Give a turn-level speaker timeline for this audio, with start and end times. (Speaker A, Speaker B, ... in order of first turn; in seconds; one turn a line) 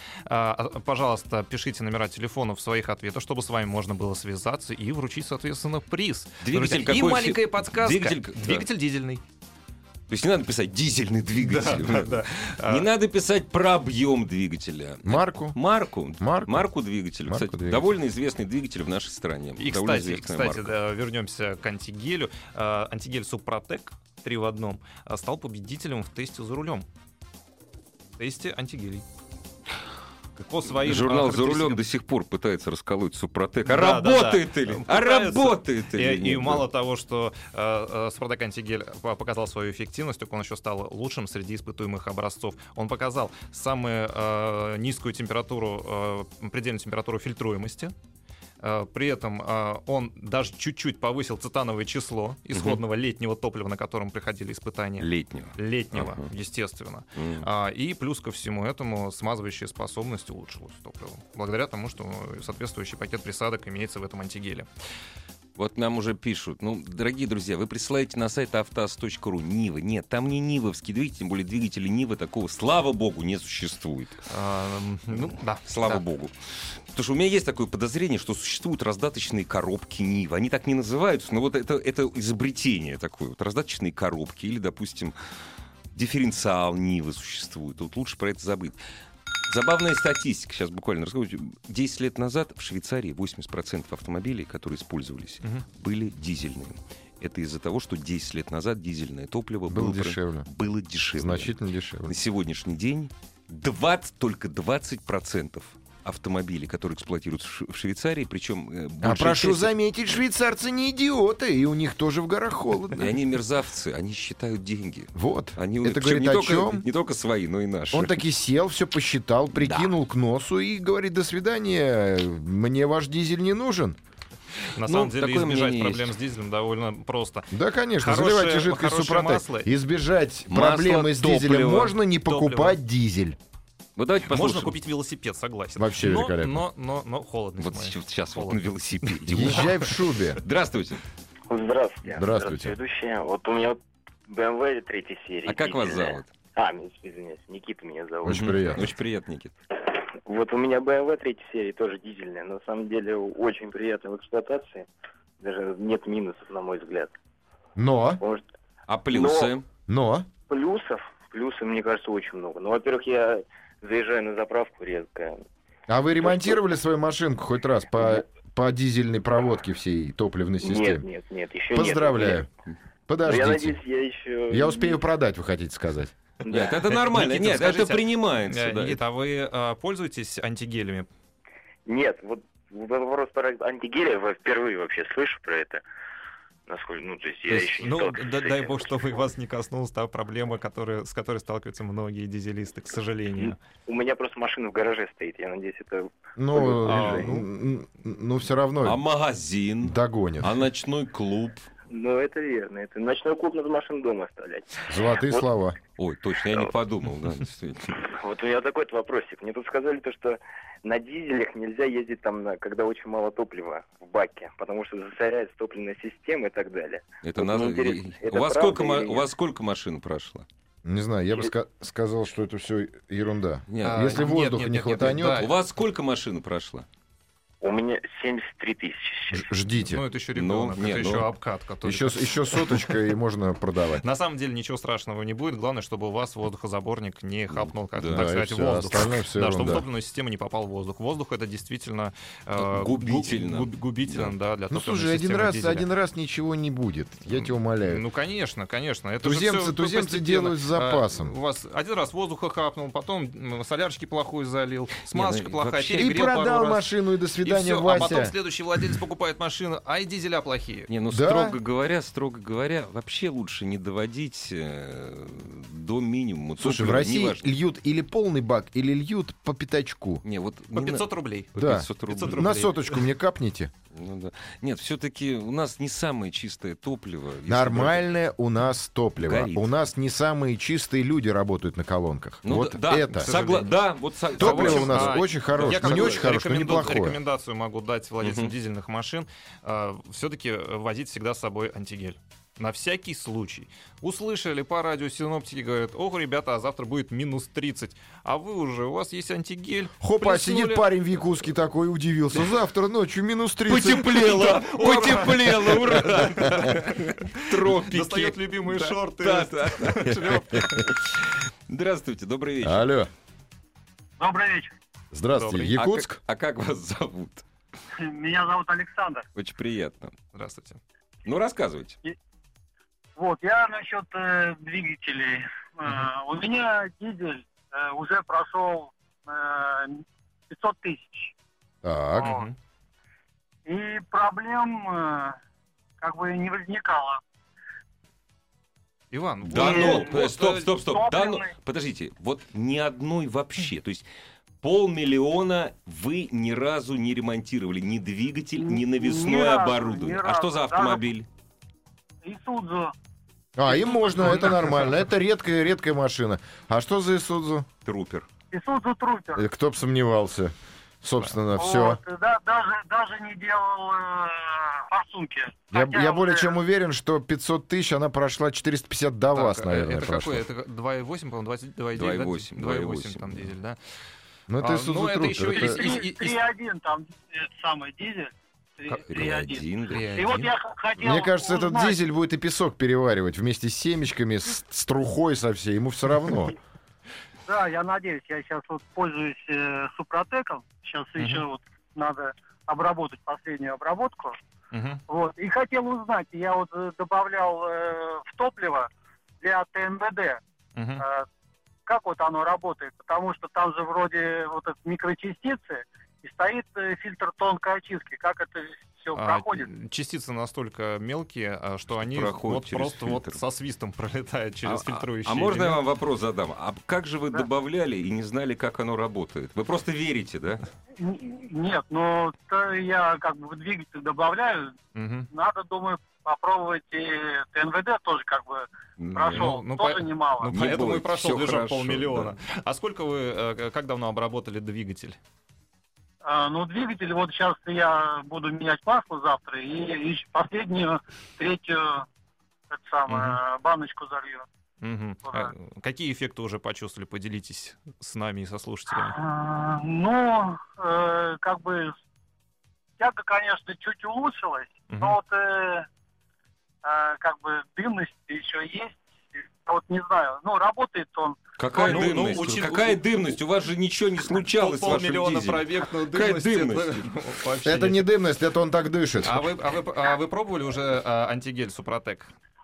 Speaker A: 0.3-9.2
Speaker B: 6.4-8.7
Speaker B: 10.1-20.8
Speaker A: 11.4-12.9
Speaker C: 15.1-15.6
Speaker C: 16.2-16.7
Speaker C: 17.3-17.9
Speaker A: 19.6-26.9
Speaker A: 28.2-29.1
Speaker A: 30.4-31.8
Speaker B: 30.7-36.7
Speaker A: 33.7-47.9
Speaker A: 48.6-64.7
Speaker B: 52.5-52.8
Speaker B: 55.0-56.3
Speaker B: 57.2-57.5
Speaker B: 65.6-74.3
Speaker A: 74.3-76.0
Speaker B: 75.2-76.3
Speaker B: 76.9-85.2
Speaker B: 85.9-88.8
Speaker B: 89.5-101.5
Speaker C: 99.7-100.5
Speaker C: 101.2-102.2
Speaker B: 102.1-109.7
Speaker C: 109.0-113.2
Speaker B: 113.0-118.2
Speaker C: 115.1-116.9
Speaker C: 117.9-124.0
Speaker B: 119.6-119.9
Speaker A: 124.8-129.7
Speaker B: 124.8-126.1
Speaker C: 127.5-133.4
Speaker B: 130.5-131.9
Speaker A: 132.2-132.8
Speaker B: 134.0-134.8
Speaker A: 134.3-138.6
Speaker C: 135.8-136.6
Speaker B: 137.6-139.9
Speaker C: 139.3-140.4
Speaker B: 140.4-141.0
Speaker D: 141.5-148.5
Speaker C: 142.1-142.8
Speaker B: 145.5-146.3
Speaker C: 148.2-148.9
Speaker B: 148.3-149.6
Speaker D: 149.9-154.9
Speaker D: 155.4-157.1
Speaker C: 157.8-158.2
Speaker B: 158.9-159.7
Speaker D: 159.1-159.6
Speaker C: 159.9-160.3
Speaker D: 160.5-165.4
Speaker C: 165.9-171.1
Speaker D: 166.2-166.6
Speaker D: 170.6-172.4
Speaker C: 171.7-172.5
Speaker C: 173.1-173.8
Speaker D: 173.2-175.0
Speaker C: 174.5-176.1
Speaker D: 176.5-176.8
Speaker B: 176.5-179.0
Speaker A: 176.6-181.1
Speaker D: 181.9-185.8
Speaker D: 186.7-189.0
Speaker A: 187.5-193.6
Speaker D: 193.4-197.4
Speaker C: 196.4-199.0
Speaker A: 196.8-197.4
Speaker B: 198.8-201.7
Speaker C: 199.8-200.5
Speaker D: 201.9-205.5
Speaker C: 204.9-205.8
Speaker B: 206.0-208.0
Speaker D: 206.5-206.7
Speaker D: 208.0-219.3
Speaker B: 217.2-220.4
Speaker C: 220.8-225.5
Speaker B: 223.7-224.2
Speaker A: 223.8-225.5
Speaker B: 225.4-226.9
Speaker D: 227.6-229.5
Speaker C: 229.3-230.0
Speaker A: 229.9-232.9
Speaker B: 230.3-231.3
Speaker C: 231.8-234.0
Speaker A: 234.0-245.9
Speaker B: 237.5-238.2
Speaker C: 238.1-239.8
Speaker B: 242.6-244.3
Speaker C: 244.7-248.0
Speaker A: 247.8-256.9
Speaker C: 249.2-251.3
Speaker B: 255.1-256.1
Speaker C: 255.9-258.4
Speaker A: 257.4-260.9
Speaker B: 260.9-267.5
Speaker C: 261.1-261.6
Speaker C: 266.6-270.2
Speaker B: 270.2-272.5
Speaker A: 270.7-273.0
Speaker C: 271.6-273.7
Speaker B: 273.9-278.1
Speaker C: 277.5-283.3
Speaker B: 279.2-279.7
Speaker B: 282.4-286.2
Speaker A: 283.2-283.8
Speaker A: 284.4-300.9
Speaker C: 284.4-287.2
Speaker B: 288.2-288.5
Speaker C: 300.0-304.5
Speaker B: 303.7-312.9
Speaker A: 304.1-310.9
Speaker C: 312.6-313.1
Speaker E: 314.2-314.8
Speaker C: 315.1-316.1
Speaker A: 315.4-315.8
Speaker B: 315.7-317.4
Speaker E: 318.0-319.2
Speaker B: 319.4-320.1
Speaker A: 320.3-320.8
Speaker B: 321.2-322.0
Speaker E: 323.2-331.3
Speaker C: 331.8-332.3
Speaker E: 332.1-332.5
Speaker A: 332.2-332.6
Speaker E: 333.7-335.4
Speaker E: 336.0-337.2
Speaker A: 339.1-340.7
Speaker B: 339.5-344.1
Speaker E: 339.5-341.5
Speaker B: 344.6-351.3
Speaker E: 348.6-351.1
Speaker E: 352.2-352.9
Speaker C: 353.6-357.7
Speaker A: 354.2-354.5
Speaker B: 357.9-358.3
Speaker E: 358.5-359.4
Speaker C: 359.4-362.0
Speaker E: 361.6-366.6
Speaker C: 365.7-370.4
Speaker A: 369.3-373.8
Speaker B: 372.0-373.5
Speaker C: 374.5-375.8
Speaker A: 374.6-376.4
Speaker E: 375.5-382.0
Speaker B: 379.0-380.1
Speaker A: 379.9-380.5
Speaker C: 381.0-386.6
Speaker E: 387.5-394.4
Speaker A: 391.2-391.4
Speaker A: 394.7-395.0
Speaker E: 395.1-398.9
Speaker E: 399.4-400.4
Speaker A: 400.8-401.0
Speaker E: 401.0-401.3
Speaker E: 401.9-409.7
Speaker A: 409.1-415.8
Speaker B: 412.0-413.4
Speaker B: 414.7-420.6
Speaker E: 421.0-424.7
Speaker A: 424.9-425.3
Speaker E: 425.3-430.5
Speaker B: 429.0-429.5
Speaker A: 429.3-435.2
Speaker B: 430.5-432.4
Speaker E: 436.2-442.1
Speaker E: 442.7-444.5
Speaker A: 443.1-443.4
Speaker A: 444.8-449.2
Speaker E: 448.9-452.0
Speaker E: 453.0-455.9
Speaker A: 454.9-455.2
Speaker E: 456.8-461.9
Speaker B: 461.6-467.1
Speaker A: 461.8-463.0
Speaker A: 464.5-468.1
Speaker C: 467.6-469.5
Speaker A: 469.2-472.3